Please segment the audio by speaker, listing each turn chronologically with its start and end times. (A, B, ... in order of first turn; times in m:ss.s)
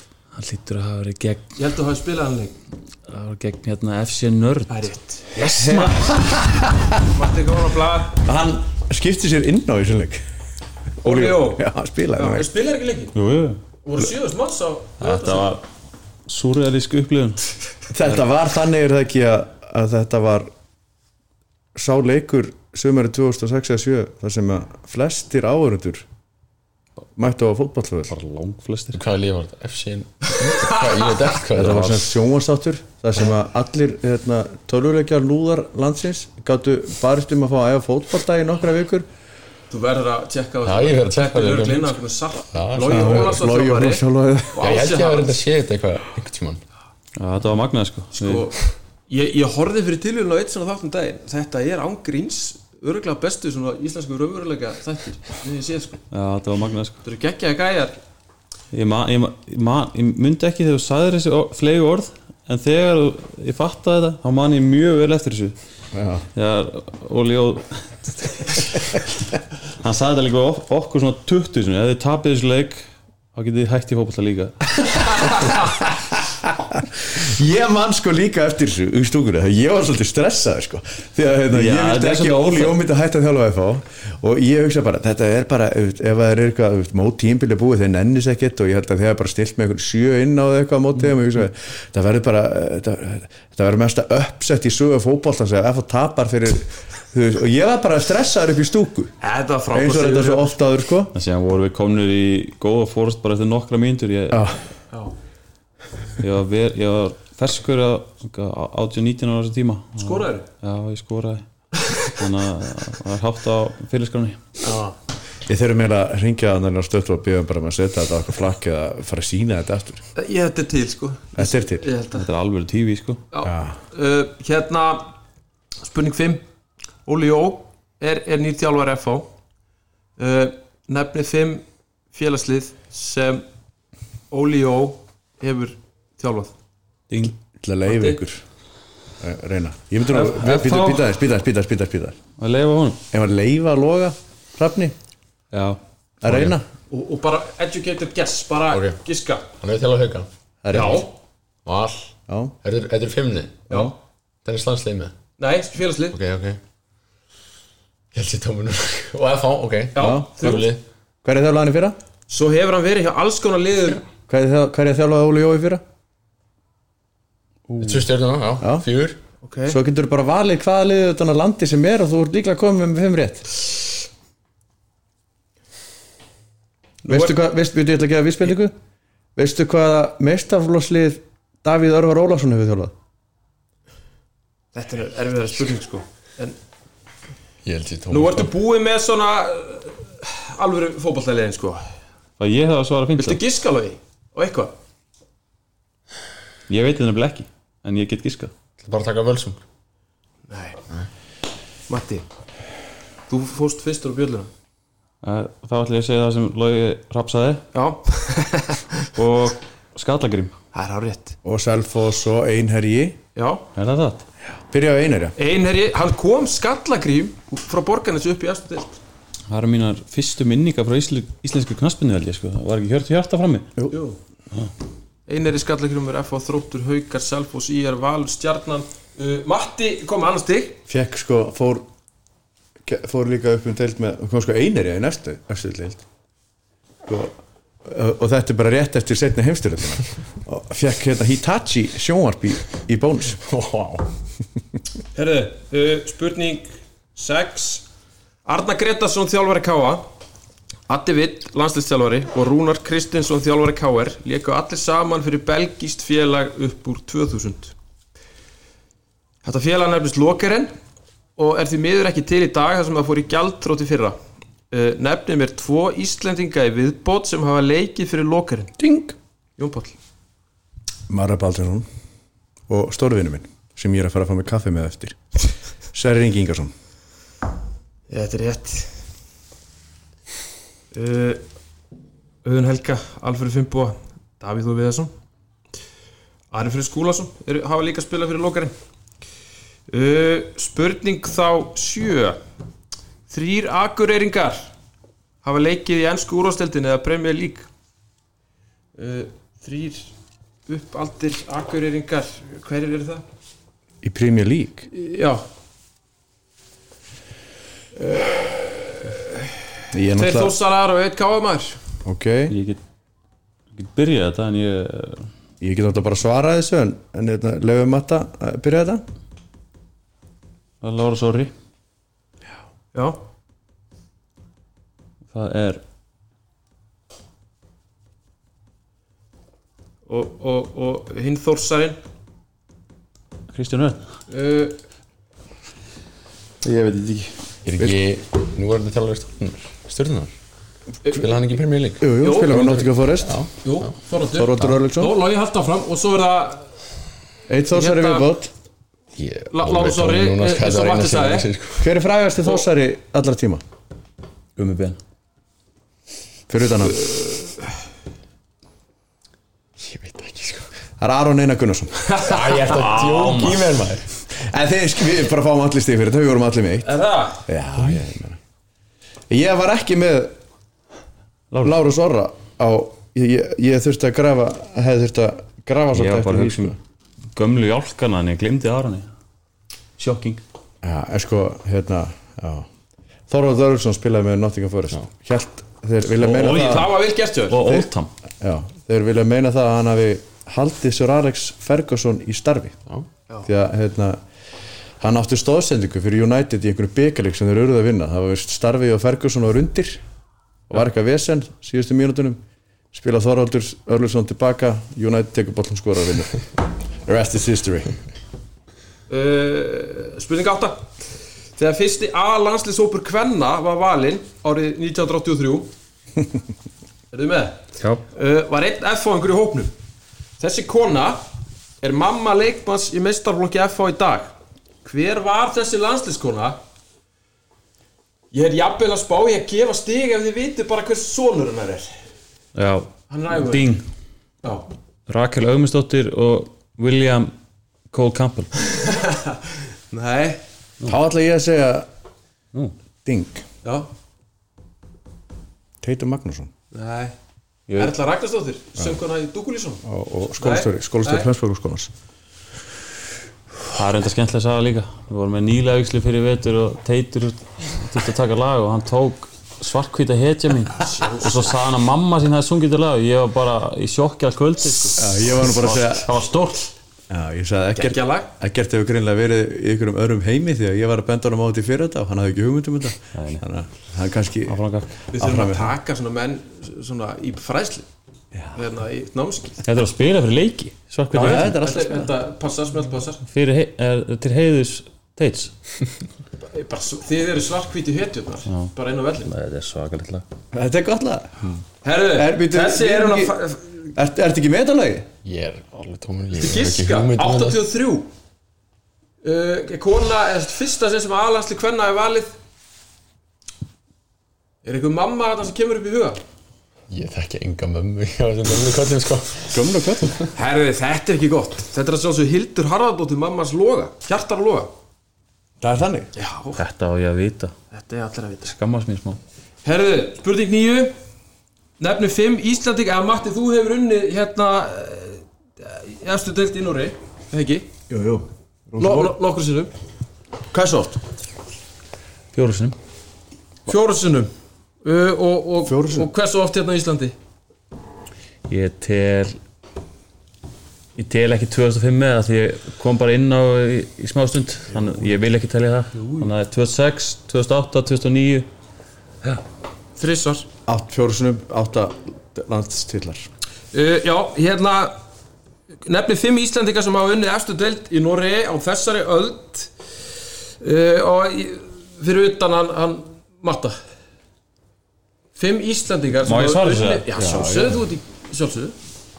0:00.3-0:01.5 A
0:01.6-0:02.5 B
0:03.1-0:06.1 A
0:04.7-0:06.2 B
0:06.1-0:06.9 C
0:07.0-0:08.2 B
0:08.2-0:10.2 C
0:11.0-0:12.5 C
0:11.0-0:11.6 B
0:12.2-0:13.1 B
0:13.1-0:13.6 A
0:13.8-0:15.5 B
0:15.0-0:15.6 A
0:16.3-0:17.4 A
0:17.9-0:20.5 C
0:21.7-0:26.0 C
0:27.2-0:28.1 C
0:28.1-0:29.0 A
0:28.9-0:32.1 D
0:31.5-0:39.1 C
0:39.7-0:45.4 B
0:40.6-0:42.0 D
0:42.5-0:43.5 D
0:42.9-0:44.7 C
0:44.6-0:46.6 D
0:47.2-0:48.5 A
0:48.1-0:56.0 B
0:56.1-0:57.0 A
0:57.0-0:58.0 B
0:58.7-1:05.6 A
1:05.9-1:06.2 C
1:06.3-1:08.8 A
1:09.8-1:14.6 A
1:16.4-1:39.1 C
1:21.5-1:22.8 A
1:39.2-1:40.6 B
1:39.7-1:41.1 C
1:41.1-1:44.5 A
1:44.3-1:44.6 C
1:46.2-1:51.4 A
1:50.0-1:50.4 B
1:52.0-1:54.5 A
1:54.6-1:54.9 B
1:55.4-2:00.0 C
2:00.2-2:02.2 B
2:01.4-2:01.9 C
2:02.1-2:03.2 A
2:03.3-2:05.1 B
2:03.4-2:03.8 C
2:05.8-2:06.4 B
2:07.0-2:09.3 B
2:10.2-2:13.4 B
2:14.3-2:16.5 B
2:17.6-2:18.4 C
2:17.9-2:18.2 B
2:19.2-2:22.2 C
2:20.1-2:21.1 A
2:22.4-2:23.0 A
2:23.1-2:24.9 C
2:25.5-2:25.8 A
2:26.2-2:26.6 C
2:26.2-2:26.5 D
2:26.9-2:29.5 B
2:28.7-2:29.0 D
2:29.6-2:30.3 D
2:30.6-2:31.0 C
2:30.7-2:31.1 B
2:31.6-2:33.9 D
2:32.3-2:32.5 C
2:34.4-2:35.1 D
2:35.4-2:36.2 B
2:36.1-2:36.6 D
2:38.1-2:40.8 D
2:39.9-2:40.7 B
2:40.0-2:40.7 C
2:41.2-2:42.0 C
2:42.3-2:44.0 B
2:44.3-2:45.8 C
2:47.7-2:48.0 C
2:47.8-2:49.2 D
2:48.6-2:48.8 C
2:49.4-2:49.8 B
2:49.7-2:53.6 C
2:57.0-2:58.7 C
2:57.0-2:57.4 B
2:59.4-3:02.9 C
3:04.7-3:06.6 B
3:07.6-3:08.5 D
3:08.1-3:11.8 B
3:12.4-3:13.4 A
3:13.2-3:14.7 B
3:16.7-3:18.5 A
3:18.8-3:19.6 D
3:20.5-3:20.8 B
3:21.9-3:22.2 B
3:23.3-3:24.5 B
3:25.2-3:27.6 A
3:27.7-3:29.1 B
3:29.1-3:30.5 A
3:30.7-3:31.4 B
3:31.4-3:33.2 C
3:33.4-3:33.6 B
3:33.7-3:34.2 A
3:34.7-3:35.3 C
3:35.4-3:39.0 B
3:39.5-3:43.7 A
3:43.9-3:44.2 B
3:45.3-3:50.8 B
3:50.9-3:51.8 C
3:52.8-3:56.0 C
3:57.0-3:57.3 C
3:57.8-4:03.4 C
4:03.4-4:04.1 D
4:05.1-4:07.8 B
4:08.4-4:10.0 B
4:10.9-4:17.7 B
4:19.4-4:20.7 B
4:21.4-4:24.2 B
4:24.7-4:28.7 B
4:28.8-4:29.2 C
4:29.6-4:30.0 B
4:31.1-4:31.8 C
4:32.7-4:35.2 C
4:35.9-4:36.7 C
4:38.1-4:38.9 B
4:40.9-4:41.4 B
4:42.4-4:45.1 B
4:46.5-4:48.7 B
4:49.9-4:52.4 B
4:53.3-4:54.7 B
4:55.4-4:57.7 B
4:59.0-5:00.1 B
5:00.7-5:03.2 B
5:04.0-5:04.9 C
5:04.9-5:05.4 B
5:08.0-5:09.5 B
5:09.9-5:10.5 C
5:10.1-5:11.8 B
5:12.0-5:12.5 C
5:12.5-5:12.8 A
5:13.7-5:15.3 A
5:15.6-5:19.0 C
5:20.8-5:21.5 A
5:25.3-5:25.8 A
5:30.1-5:32.0 B
5:33.5-5:34.0 A
5:34.3-5:34.8 B
5:36.6-5:38.0 C
5:37.6-5:40.3 D
5:41.0-5:43.9 D
5:42.0-5:43.4 C
5:42.2-5:42.6 B
5:43.6-5:46.6 B
5:44.3-5:45.1 C
5:47.5-5:48.5 C
5:47.7-5:48.3 B
5:49.1-5:51.9 D
5:49.5-5:51.5 B
5:51.8-5:53.6 C
5:54.6-5:55.0 A
5:56.5-5:57.1 C
5:59.8-6:00.7 D
6:01.0-6:02.1 C
6:02.0-6:03.4 B
6:02.2-6:04.1 D
6:02.9-6:03.7 A
6:04.3-6:06.9 C
6:06.8-6:07.4 B
6:07.4-6:08.4 C
6:09.3-6:10.3 C
6:11.6-6:16.8 C
6:15.9-6:16.8 A
6:17.3-6:19.1 A
6:20.0-6:20.4 A
6:20.8-6:22.7 C
6:23.3-6:26.9 C
6:26.2-6:27.7 B
6:27.5-6:28.1 A
6:28.4-6:32.8 C
6:33.4-6:34.2 C
6:35.0-6:40.0 C
6:40.7-6:42.4 C
6:42.9-6:46.4 C
6:47.0-6:47.9 C
6:49.1-6:50.9 B
6:51.6-6:55.7 B
6:57.1-6:59.7 B
7:00.4-7:01.2 B
7:01.8-7:04.3 B
7:04.8-7:06.6 B
7:08.3-7:11.9 B
7:12.5-7:13.8 A
7:13.1-7:13.7 B
7:15.1-7:17.3 A
7:17.9-7:18.5 A
7:18.6-7:19.4 B
7:19.9-7:20.4 B
7:20.8-7:21.9 C
7:23.0-7:23.4 C
7:25.8-7:26.5 C
7:26.7-7:27.1 B
7:27.8-7:29.8 B
7:29.8-7:31.9 C
7:30.4-7:31.3 B
7:33.7-7:46.7 A
7:40.8-7:41.5 B
7:45.0-7:46.1 C
7:47.1-7:54.6 C
7:47.8-7:48.3 B
7:53.1-7:53.4 A
7:54.5-7:55.0 A
7:55.1-7:55.7 C
7:55.1-7:57.9 B
7:58.5-7:59.6 B
7:59.6-8:01.6 A
8:01.1-8:02.1 C
8:01.1-8:03.2 B
8:03.2-8:05.5 A
8:06.5-8:09.3 B
8:09.2-8:10.2 A
8:10.5-8:11.4 C
8:11.8-8:13.8 B
8:12.2-8:13.4 C
8:13.9-8:15.1 C
8:15.2-8:17.6 D
8:16.4-8:18.1 B
8:19.2-8:22.3 B
8:24.6-8:26.2 B
8:26.9-8:30.3 D
8:29.5-8:30.2 C
8:30.3-8:34.7 B
8:35.6-8:36.1 C
8:36.2-8:36.6 B
8:36.6-8:37.5 A
8:37.7-8:38.5 B
8:38.4-8:39.2 A
8:39.6-8:40.9 B
8:41.8-8:47.7 B
8:47.9-8:49.1 C
8:48.8-8:49.7 B
8:50.5-8:51.0 C
8:52.3-8:52.8 A
8:53.7-8:54.3 B
8:54.8-8:57.1 B
8:55.6-8:56.1 C
8:58.5-8:59.4 A
9:01.0-9:08.5 A
9:10.0-9:10.4 B
9:10.7-9:13.3 C
9:13.7-9:15.0 B
9:15.8-9:19.7 B
9:20.6-9:23.7 B
9:25.4-9:28.7 B
9:26.2-9:27.7 A
9:27.2-9:27.6 C